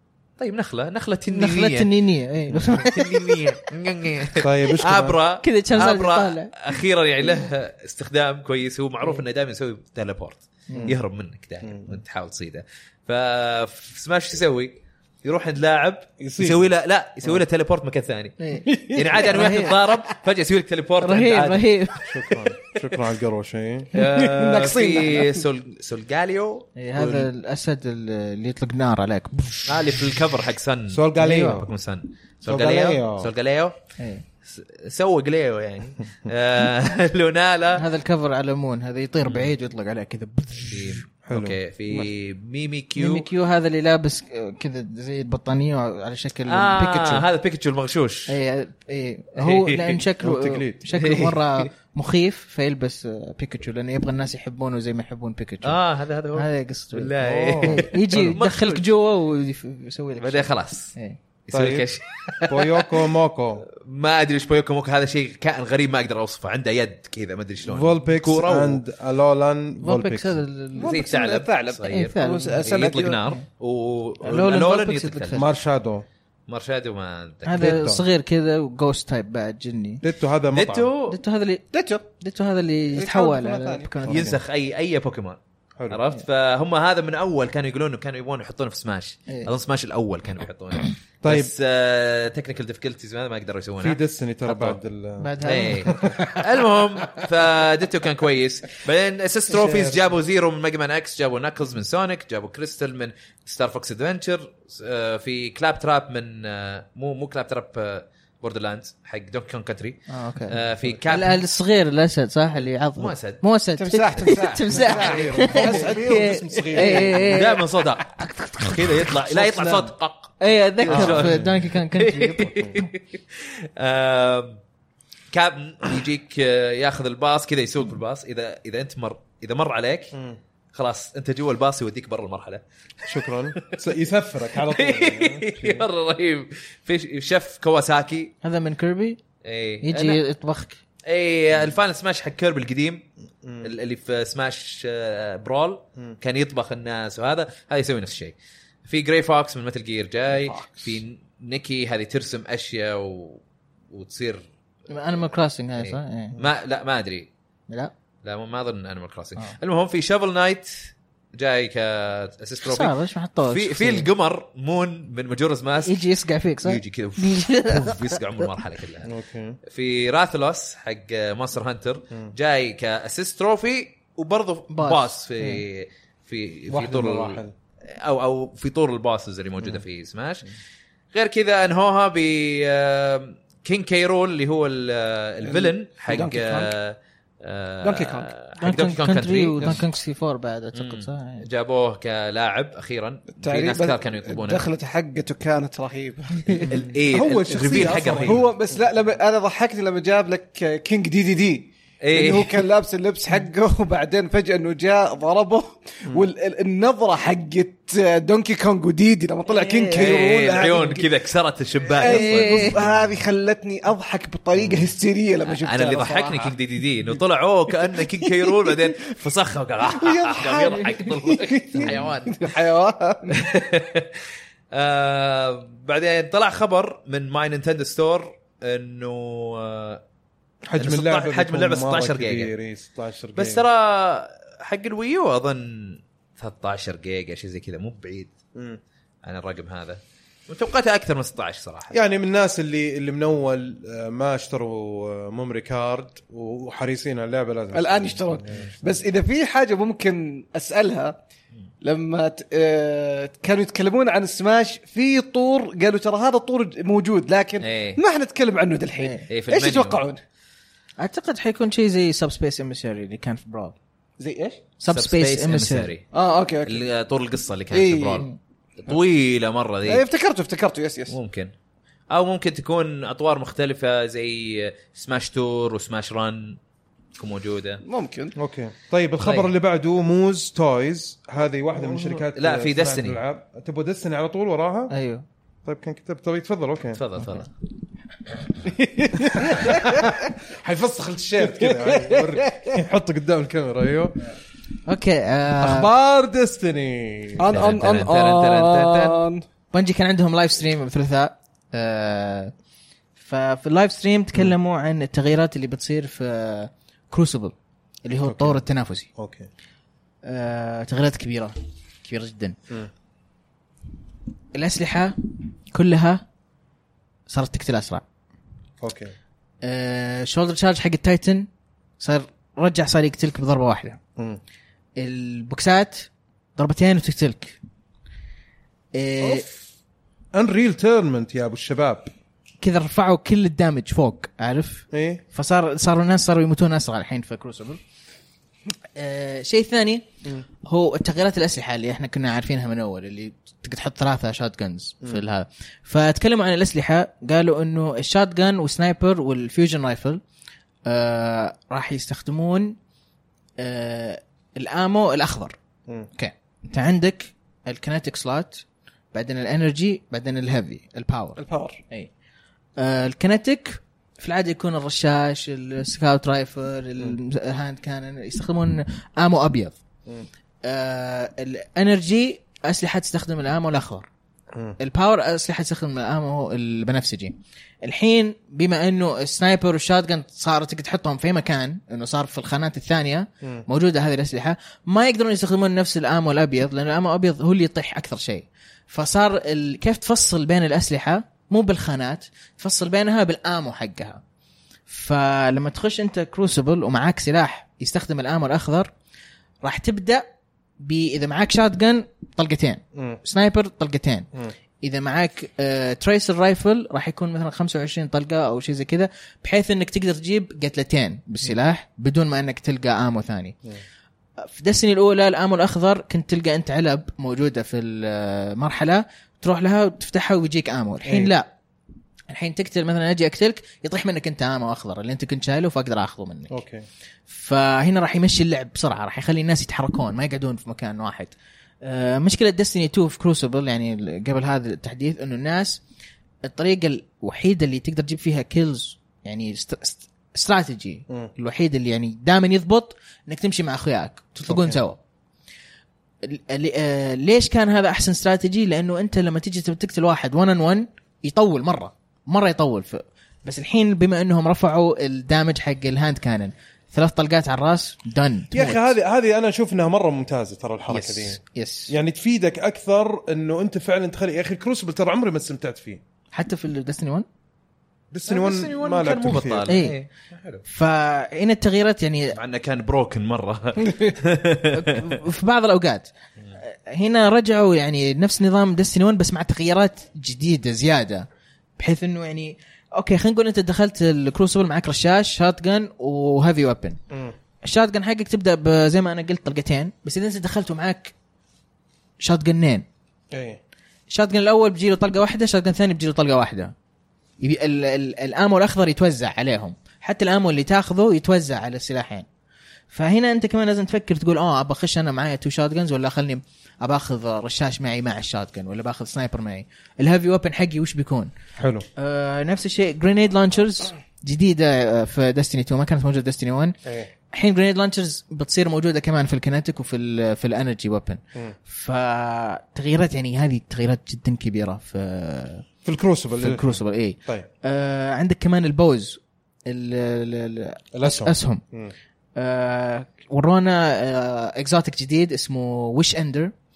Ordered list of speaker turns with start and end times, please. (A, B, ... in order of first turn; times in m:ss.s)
0:00.4-0:01.9 A
0:01.3-0:03.4 B
0:02.7-0:21.7 A
0:04.4-0:05.2 C
0:05.4-0:06.8 B
0:10.7-0:11.0 B
0:10.7-0:11.0 C
0:11.6-0:12.0 C
0:16.2-0:16.7 C
0:18.4-0:19.8 B
0:18.6-0:20.0 D
0:21.0-0:22.3 B
0:22.1-0:23.9 C
0:23.9-0:25.4 D
0:23.9-0:27.3 A
0:26.8-0:29.7 B
0:29.6-0:33.8 A
0:30.9-0:31.7 C
0:31.2-0:31.6 B
0:32.4-0:33.3 C
0:34.0-0:34.2 B
0:34.4-0:37.8 A
0:37.7-0:41.0 B
0:40.7-0:43.3 A
0:41.2-0:41.6 C
0:43.0-0:47.3 B
0:46.5-0:48.4 A
0:48.3-0:55.8 B
0:49.4-0:50.0 A
0:50.2-0:50.8 C
0:50.9-0:51.7 A
0:55.6-0:58.8 A
0:56.4-1:01.2 B
0:57.2-0:58.3 C
1:00.2-1:00.9 A
1:01.5-1:03.0 A
1:01.5-1:01.9 C
1:02.5-1:03.6 C
1:03.7-1:08.8 A
1:07.6-1:10.4 C
1:09.8-1:10.9 B
1:10.8-1:13.2 D
1:10.8-1:15.4 A
1:11.9-1:12.6 B
1:14.2-1:15.4 B
1:15.3-1:16.0 C
1:16.5-1:17.8 A
1:17.5-1:20.0 B
1:17.6-1:18.0 C
1:20.0-1:20.9 C
1:20.5-1:21.2 A
1:21.1-1:24.4 B
1:21.7-1:22.0 D
1:23.0-1:23.9 D
1:24.1-1:24.4 C
1:24.1-1:34.8 A
1:31.2-1:31.5 C
1:33.8-1:36.2 C
1:35.2-1:36.1 B
1:35.4-1:51.4 A
1:39.5-1:40.2 C
1:50.1-1:57.6 B
1:53.0-1:53.4 A
1:53.8-1:57.4 D
1:54.7-1:57.4 C
1:57.3-2:04.6 A
1:58.2-1:59.9 B
2:00.4-2:02.9 B
2:00.9-2:01.6 C
2:05.3-2:10.1 A
2:10.1-2:10.4 C
2:10.7-2:13.8 A
2:13.1-2:15.8 C
2:14.6-2:18.3 A
2:18.4-2:19.2 B
2:19.4-2:20.2 A
2:19.8-2:20.8 B
2:21.1-2:23.0 A
2:23.4-2:23.7 C
2:23.6-2:28.4 A
2:28.9-2:34.5 A
2:34.9-2:36.4 B
2:35.8-2:37.3 A
2:38.2-2:42.9 A
2:42.6-2:44.1 B
2:43.5-2:46.0 A
2:45.9-2:48.5 B
2:46.6-2:49.1 A
2:49.0-2:49.6 C
2:49.7-3:00.5 A
2:54.7-2:55.6 B
2:56.7-2:57.5 C
3:01.1-3:09.8 A
3:05.4-3:06.7 D
3:07.8-3:08.3 D
3:08.6-3:11.4 B
3:10.7-3:14.7 A
3:13.4-3:16.8 D
3:16.7-3:18.4 A
3:17.1-3:18.5 C
3:17.5-3:31.1 D
3:22.0-3:22.6 A
3:29.5-3:30.1 B
3:30.0-3:32.8 A
3:31.9-3:36.5 D
3:32.0-3:32.8 B
3:34.6-3:34.9 C
3:35.5-3:42.5 A
3:37.8-3:39.0 D
3:39.8-3:43.5 D
3:43.3-3:50.0 A
3:50.7-3:53.6 C
3:50.8-3:52.5 A
3:53.4-3:58.3 A
3:58.6-3:58.8 C
3:59.2-4:02.0 A
4:01.9-4:09.0 C
4:07.7-4:11.2 D
4:11.8-4:20.2 D
4:17.6-4:18.0 A
4:19.3-4:20.0 A
4:21.0-4:23.8 B
4:24.2-4:24.6 D
4:24.8-4:25.9 B
4:24.9-4:26.1 A
4:26.1-4:26.8 D
4:26.6-4:28.3 A
4:27.7-4:28.3 D
4:28.8-4:30.0 A
4:29.8-4:31.2 D
4:31.1-4:31.5 A
4:32.1-4:36.6 A
4:37.2-4:37.8 A
4:37.8-4:38.3 D
4:38.4-4:44.9 C
4:39.2-4:39.5 A
4:42.4-4:43.2 A
4:44.9-4:45.2 B
4:45.6-4:47.0 C
4:47.0-4:47.5 A
4:48.6-4:50.2 D
4:49.2-4:54.4 C
4:51.4-4:52.8 D
4:54.9-4:55.9 B
4:55.6-4:57.7 C
4:57.4-4:59.4 D
4:57.5-4:59.2 A
4:59.7-5:02.5 B
5:03.2-5:09.1 B
5:08.2-5:08.6 C
5:09.2-5:09.5 C
5:10.2-5:12.6 B
5:14.6-5:15.2 B
5:15.7-5:16.2 B
5:17.3-5:18.0 B
5:18.8-5:19.1 C
5:19.6-5:21.5 B
5:22.0-5:24.0 B
5:25.0-5:27.6 B
5:28.9-5:29.5 B
5:29.2-5:29.5 D
5:30.3-5:32.1 C
5:32.6-5:37.8 B
5:34.9-5:35.2 C
5:39.0-5:40.1 B
5:40.6-5:50.2 B
5:50.9-5:52.8 B
5:53.6-5:55.6 B
5:56.1-6:02.1 B
6:01.4-6:01.8 D
6:02.8-6:09.8 B
6:10.6-6:14.1 B
6:14.8-6:34.2 B
6:34.9-6:38.9 B
6:39.6-6:40.3 B
6:40.8-6:44.3 B
6:43.0-6:43.2 C
6:44.8-6:53.6 B
6:54.4-7:01.5 B
7:01.0-7:01.3 C
7:02.3-7:06.6 B
7:06.5-7:06.9 C
7:07.3-7:15.8 B
7:16.4-7:25.0 B
7:24.5-7:24.8 C
7:26.2-7:38.9 B
7:38.5-7:46.0 C
7:41.0-7:41.9 B
7:46.3-7:47.3 B
7:48.1-7:49.7 C
7:48.3-7:50.6 A
7:49.7-7:50.0 B
7:50.7-7:52.4 B
7:52.4-7:55.2 A
7:54.7-8:01.3 B
8:01.8-8:07.0 B
8:07.1-8:07.4 C
8:07.6-8:11.1 B
8:12.2-8:12.9 B
8:13.3-8:13.6 C
8:14.1-8:16.7 B
8:17.4-8:22.3 B
8:22.9-8:31.3 B
8:31.6-8:31.9 C
8:32.0-8:36.8 B
8:37.3-8:45.7 B
8:45.8-8:47.5 C
8:46.4-8:51.6 B
8:50.9-8:51.9 C
8:52.4-8:56.5 B